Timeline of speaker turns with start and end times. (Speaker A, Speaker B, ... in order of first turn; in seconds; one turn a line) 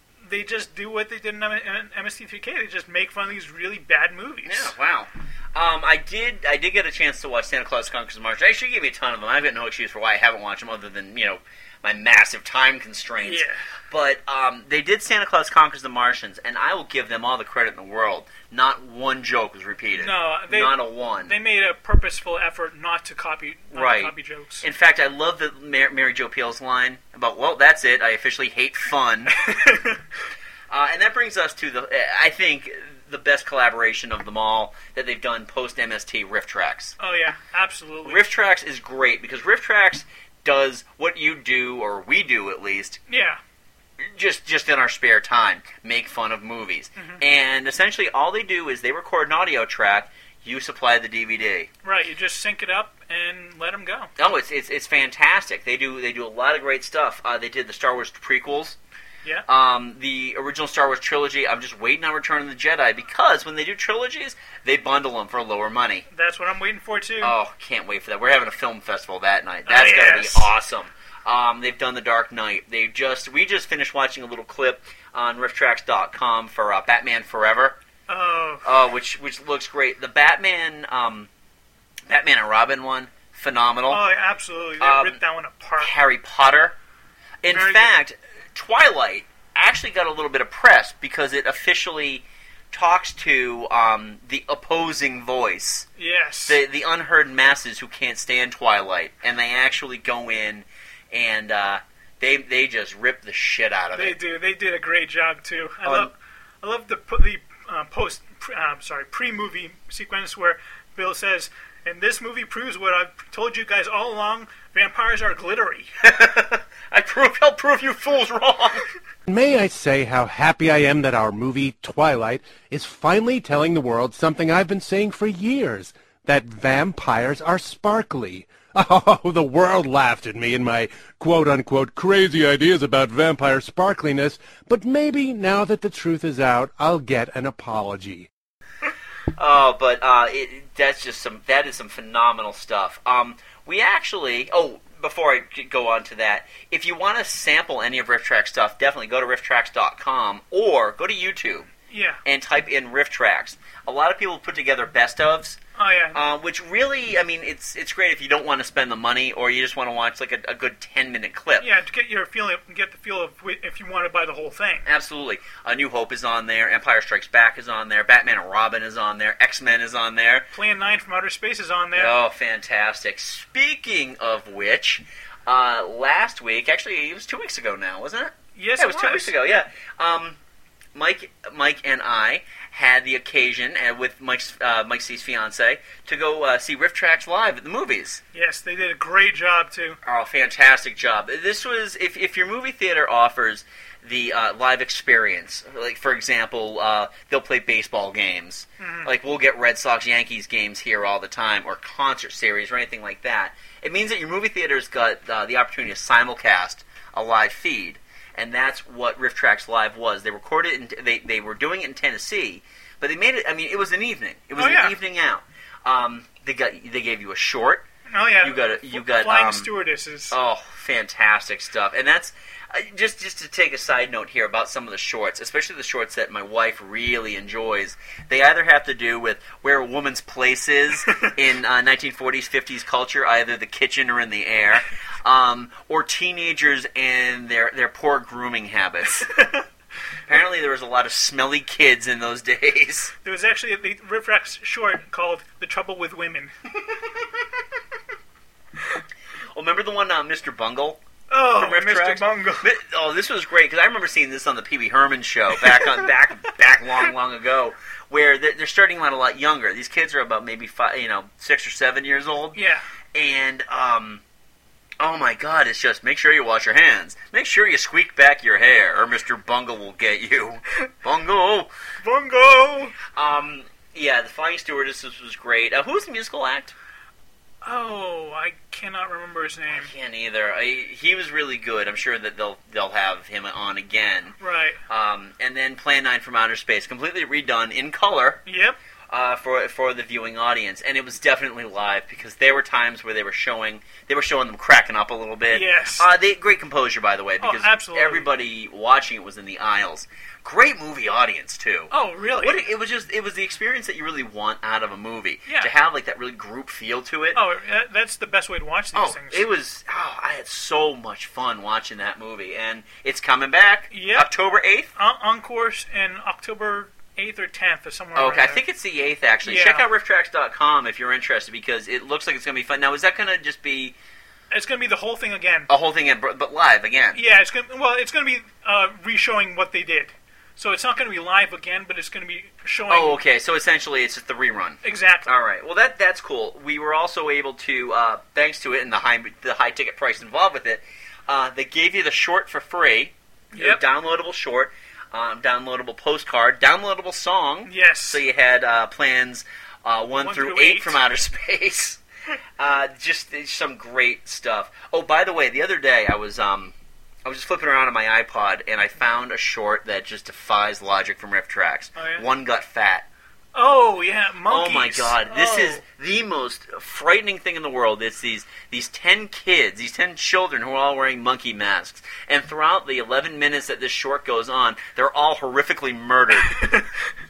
Speaker A: 0.2-4.7
Speaker B: 4.5-21.3
Speaker A: 13.2-13.6
Speaker A: 20.0-24.6
Speaker B: 23.7-29.6
Speaker A: 29.5-30.0
Speaker B: 30.7-37.0
Speaker A: 37.0-38.2
Speaker B: 38.0-43.0
Speaker A: 43.1-43.4
Speaker B: 44.0-51.7
Speaker A: 47.0-47.2
Speaker A: 51.8-54.1
Speaker B: 54.2-58.8
Speaker B: 59.5-66.1
Speaker A: 66.1-67.3
Speaker B: 67.2-77.8
Speaker A: 69.7-70.5
Speaker A: 78.1-78.7
Speaker B: 78.6-81.3
Speaker B: 82.1-84.0
Speaker A: 83.9-85.9
Speaker B: 84.8-85.2
Speaker B: 85.8-86.8
Speaker B: 87.4-95.9
Speaker A: 87.5-87.9
Speaker A: 96.0-96.6
Speaker B: 96.5-104.2
Speaker A: 103.9-115.9
Speaker B: 105.8-106.1
Speaker B: 116.0-118.8
Speaker C: 119.3-138.3
Speaker B: 139.3-151.7
Speaker A: 151.9-152.2
Speaker B: 152.2-155.6
Speaker A: 155.8-156.2
Speaker B: 156.1-161.7
Speaker A: 161.6-164.9
Speaker B: 164.8-170.5
Speaker A: 170.5-172.2
Speaker B: 171.9-180.4
Speaker A: 178.6-179.6
Speaker B: 180.9-188.2
Speaker A: 188.3-190.0
Speaker B: 190.0-217.9
Speaker A: 198.8-199.1
Speaker A: 214.6-215.0
Speaker A: 218.1-220.4
Speaker B: 218.4-219.7
Speaker B: 220.3-239.3
Speaker A: 239.4-239.6
Speaker B: 240.3-243.1
Speaker A: 243.2-246.5
Speaker B: 249.6-251.0
Speaker A: 251.3-252.7
Speaker B: 251.5-262.6
Speaker A: 262.6-262.9
Speaker B: 263.1-264.2
Speaker B: 265.0-271.7
Speaker A: 272.0-273.0
Speaker B: 273.1-276.7
Speaker A: 277.6-279.9
Speaker B: 279.7-284.4
Speaker A: 284.4-284.8
Speaker B: 284.9-288.4
Speaker A: 288.5-288.8
Speaker B: 289.1-307.4
Speaker A: 295.5-296.1
Speaker A: 297.4-298.3
Speaker A: 301.9-302.6
Speaker A: 305.5-305.7
Speaker A: 307.3-309.5
Speaker B: 308.9-314.9
Speaker A: 313.9-314.3
Speaker A: 315.0-318.6
Speaker B: 318.1-324.0
Speaker A: 319.4-319.9
Speaker A: 324.5-325.7
Speaker B: 325.7-327.2
Speaker A: 327.1-333.2
Speaker B: 332.9-352.0
Speaker A: 334.8-335.3
Speaker A: 343.5-343.8
Speaker A: 347.7-348.2
Speaker A: 350.2-351.0
Speaker B: 352.6-356.7
Speaker B: 357.2-363.1
Speaker A: 362.0-362.3
Speaker A: 363.6-365.8
Speaker B: 364.5-376.7
Speaker A: 376.3-377.0